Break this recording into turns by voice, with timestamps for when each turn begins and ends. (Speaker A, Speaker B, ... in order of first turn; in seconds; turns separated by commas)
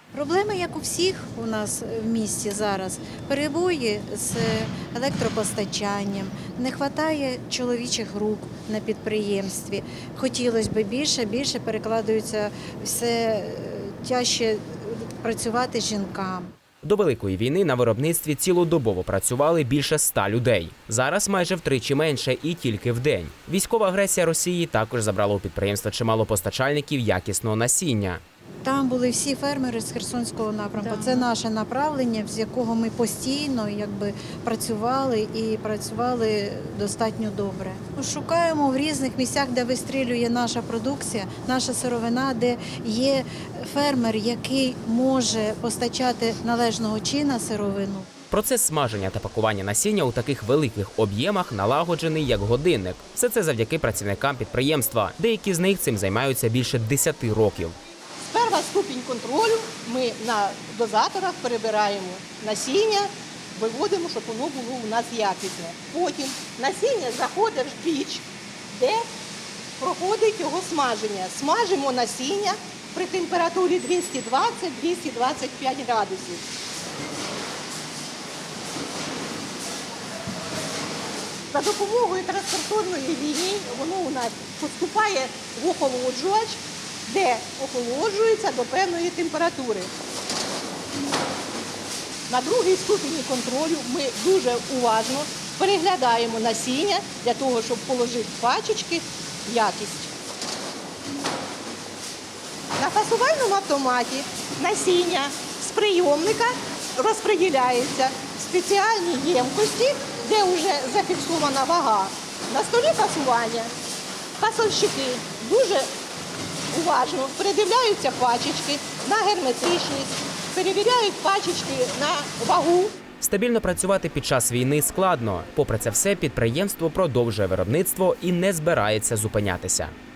Speaker A: 0.1-16.5, Speaker B: 16.8-28.2, Speaker A: 28.6-48.1, Speaker B: 48.3-57.8, Speaker C: 58.3-69.1, Speaker C: 69.8-76.5, Speaker C: 81.5-89.9, Speaker C: 92.3-100.1, Speaker C: 102.8-113.7, Speaker C: 114.4-115.9, Speaker C: 116.7-123.0, Speaker B: 123.2-129.9